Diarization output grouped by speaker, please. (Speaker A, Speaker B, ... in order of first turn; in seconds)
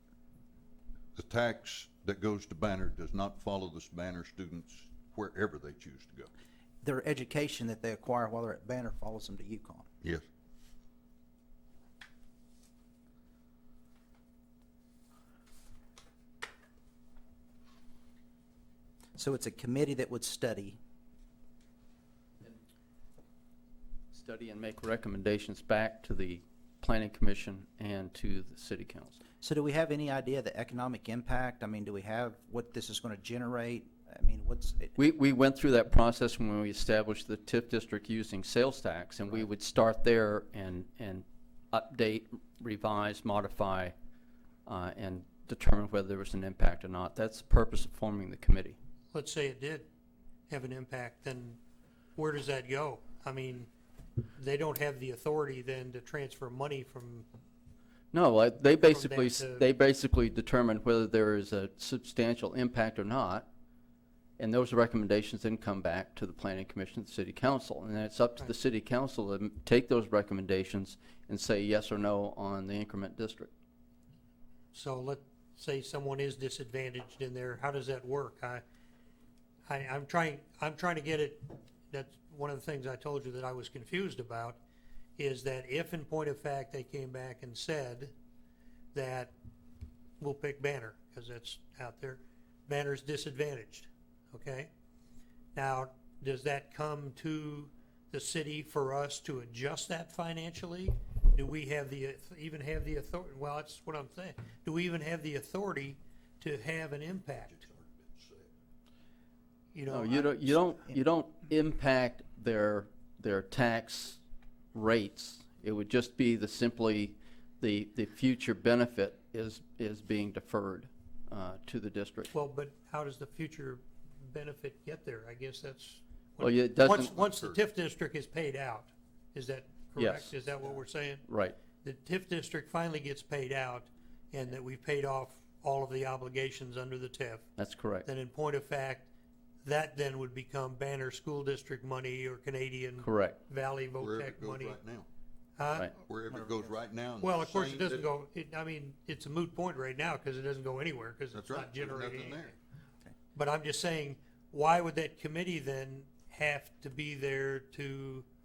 Speaker A: 1.1-6.3, 107.5-108.5, 144.0-145.1, 146.1-148.1, 151.3-152.5
Speaker B: 6.8-9.9, 19.1-20.8, 29.4-34.9, 146.3-146.6
Speaker C: 24.1-29.2, 35.0-43.9, 44.7-48.8, 58.1-63.5, 64.4-73.5, 109.9-114.2, 114.7-122.3, 126.4-127.2, 130.0-130.3, 131.3-131.6, 137.6-138.1, 143.0-143.4
Speaker D: 49.1-49.9, 50.5-51.6, 52.2-53.7, 54.4-57.3, 58.8-59.7, 74.7-78.6, 79.7-84.6, 85.2-88.1, 88.9-89.3, 90.2-94.7, 95.5-107.6, 109.7-110.6, 122.3-131.3, 131.8-137.5, 138.1-139.1, 139.6-144.8, 145.6-145.9, 147.2-152.6, 153.3-158.2